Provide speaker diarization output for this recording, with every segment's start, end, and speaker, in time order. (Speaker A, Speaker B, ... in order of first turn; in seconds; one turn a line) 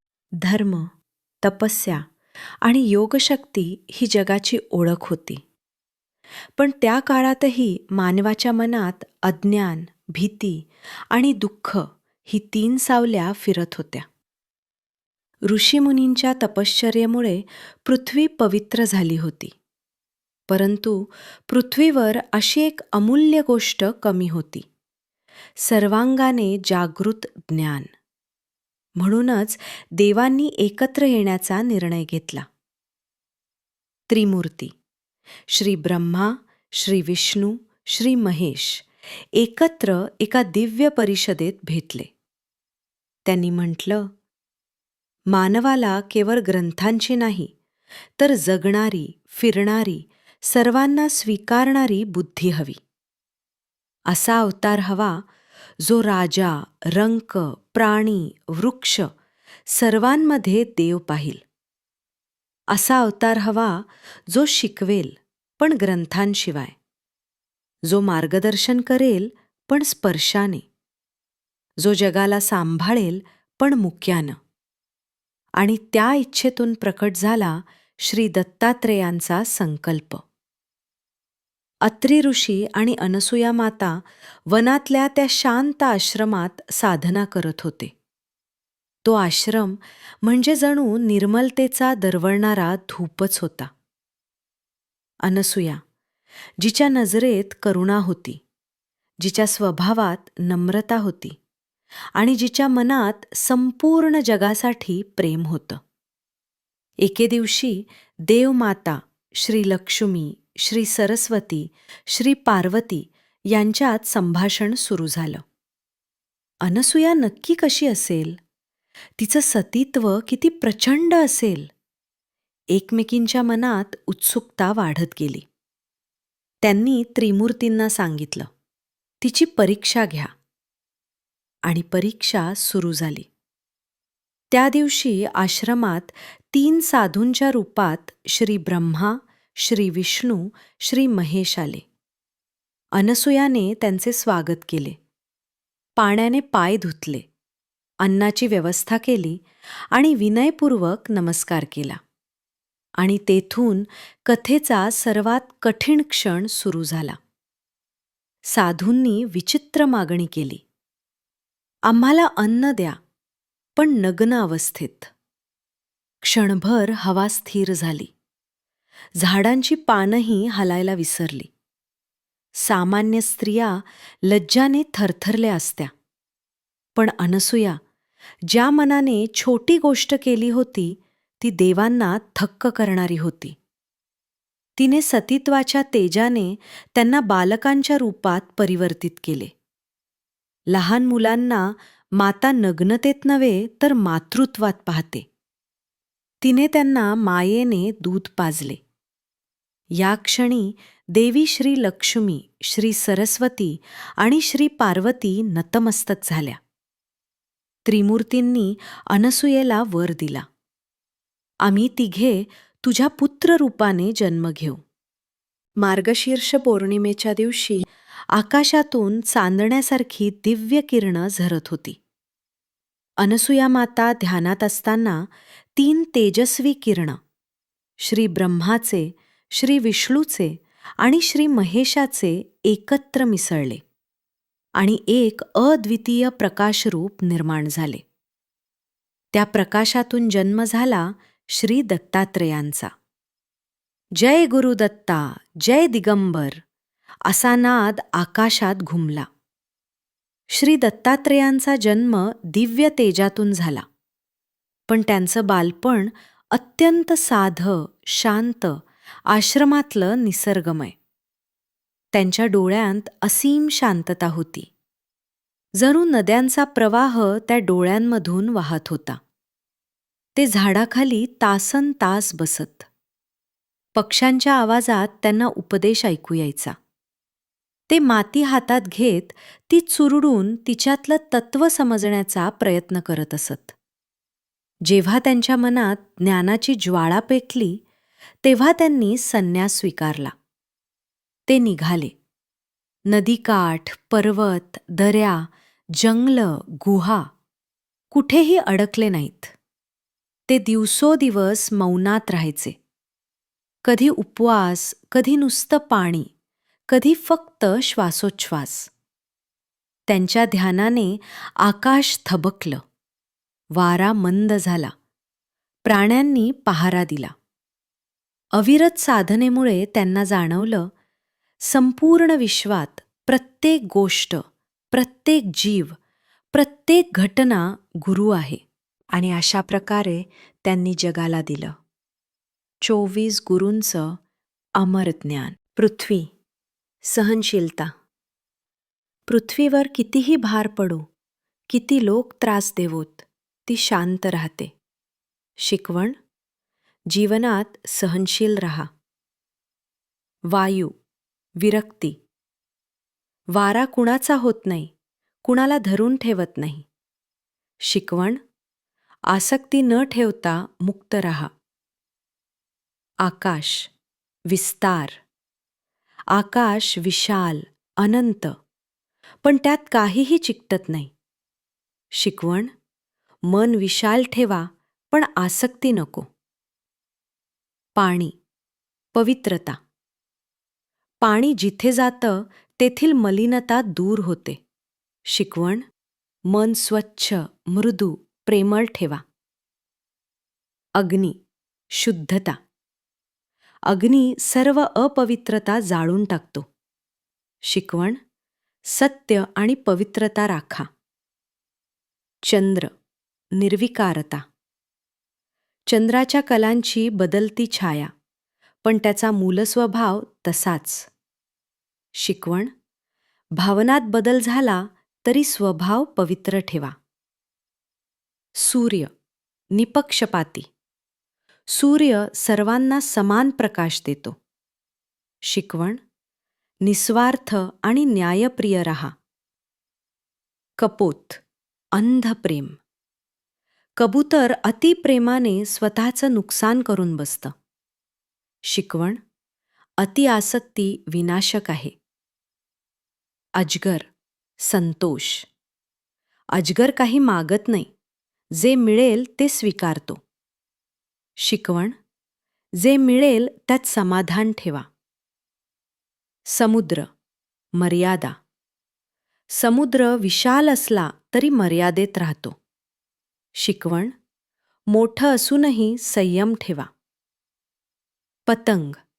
Speaker A: 0.4-0.9
Speaker A: 1.4-2.0
Speaker A: 2.6-5.4
Speaker A: 6.6-14.1
Speaker A: 15.5-19.5
Speaker A: 20.5-24.6
Speaker A: 25.6-27.9
Speaker A: 29.0-32.4
Speaker A: 34.1-34.7
Speaker A: 35.5-42.1
Speaker A: 43.2-44.0
Speaker A: 45.3-47.5
Speaker A: 48.2-52.8
Speaker A: 54.1-55.2
Speaker A: 55.8-59.1
Speaker A: 59.7-61.4
Speaker A: 62.7-66.7
Speaker A: 67.9-70.7
Speaker A: 71.8-74.4
Speaker A: 75.6-80.2
Speaker A: 81.8-87.9
Speaker A: 89.0-93.7
Speaker A: 95.2-95.8
Speaker A: 96.6-98.4
Speaker A: 99.2-101.3
Speaker A: 102.2-105.8
Speaker A: 107.0-115.4
Speaker A: 116.6-118.4
Speaker A: 119.2-121.7
Speaker A: 122.7-125.4
Speaker A: 126.6-128.5
Speaker A: 129.2-130.3
Speaker A: 131.7-133.3
Speaker A: 134.5-141.8
Speaker A: 142.9-144.9
Speaker A: 146.0-147.2
Speaker A: 148.0-152.0
Speaker A: 153.0-157.2
Speaker A: 158.5-160.6
Speaker A: 161.9-163.0
Speaker A: 163.8-165.1
Speaker A: 166.2-168.1
Speaker A: 169.2-171.5
Speaker A: 172.6-175.9
Speaker A: 176.9-177.8
Speaker A: 178.5-183.5
Speaker A: 184.8-189.5
Speaker A: 190.7-195.2
Speaker A: 196.4-198.8
Speaker A: 200.0-206.6
Speaker A: 207.8-210.4
Speaker A: 211.6-214.8
Speaker A: 215.8-222.0
Speaker A: 223.2-227.2
Speaker A: 228.0-233.8
Speaker A: 234.8-238.0
Speaker A: 239.3-242.9
Speaker A: 244.2-246.6
Speaker A: 247.3-249.3
Speaker A: 250.5-253.8
Speaker A: 254.9-258.8
Speaker A: 259.3-260.9
Speaker A: 262.1-264.7
Speaker A: 265.8-269.2
Speaker A: 270.4-272.9
Speaker A: 273.9-276.7
Speaker A: 277.9-283.7
Speaker A: 284.9-287.8
Speaker A: 288.4-290.3
Speaker A: 291.5-292.1
Speaker A: 293.1-295.5
Speaker A: 296.0-297.2
Speaker A: 298.1-299.5
Speaker A: 300.5-302.8
Speaker A: 303.8-306.3
Speaker A: 306.9-308.9
Speaker A: 310.1-312.8
Speaker A: 313.7-314.9
Speaker A: 315.9-317.3
Speaker A: 318.5-320.9
Speaker A: 321.6-325.9
Speaker A: 326.5-328.6
Speaker A: 329.1-331.7
Speaker A: 332.8-334.2
Speaker A: 334.8-336.3
Speaker A: 337.0-337.9
Speaker A: 339.3-341.0
Speaker A: 341.7-344.7
Speaker A: 345.6-346.1
Speaker A: 347.1-348.9
Speaker A: 350.5-350.9
Speaker A: 351.6-352.2
Speaker A: 353.5-354.9
Speaker A: 355.4-356.8
Speaker A: 357.9-358.4
Speaker A: 359.3-361.5
Speaker A: 363.2-363.9
Speaker A: 364.5-365.2
Speaker A: 366.3-368.5
Speaker A: 369.4-371.1
Speaker A: 372.2-372.7
Speaker A: 373.5-376.2
Speaker A: 378.0-378.4
Speaker A: 379.1-379.8
Speaker A: 381.2-384.6
Speaker A: 385.3-385.8
Speaker A: 386.5-389.2
Speaker A: 391.0-391.4
Speaker A: 391.9-392.6
Speaker A: 393.9-396.6
Speaker A: 397.7-398.2
Speaker A: 398.9-400.9
Speaker A: 402.4-402.9
Speaker A: 403.6-404.4
Speaker A: 405.9-408.1
Speaker A: 408.8-411.1
Speaker A: 412.2-412.7
Speaker A: 413.6-416.9
Speaker A: 418.6-419.1
Speaker A: 419.7-420.7
Speaker A: 421.7-424.3
Speaker A: 425.4-426.0
Speaker A: 426.8-429.1
Speaker A: 430.8-431.4
Speaker A: 431.9-432.8
Speaker A: 434.0-437.5
Speaker A: 438.7-439.2
Speaker A: 440.0-441.9
Speaker A: 443.6-444.0
Speaker A: 444.6-445.5
Speaker A: 446.5-447.9
Speaker A: 448.6-450.2
Speaker A: 451.4-451.9
Speaker A: 452.8-454.9
Speaker A: 456.5-457.1
Speaker A: 457.8-458.3
Speaker A: 459.5-462.6
Speaker A: 463.6-464.1
Speaker A: 464.9-466.9
Speaker A: 468.5-469.0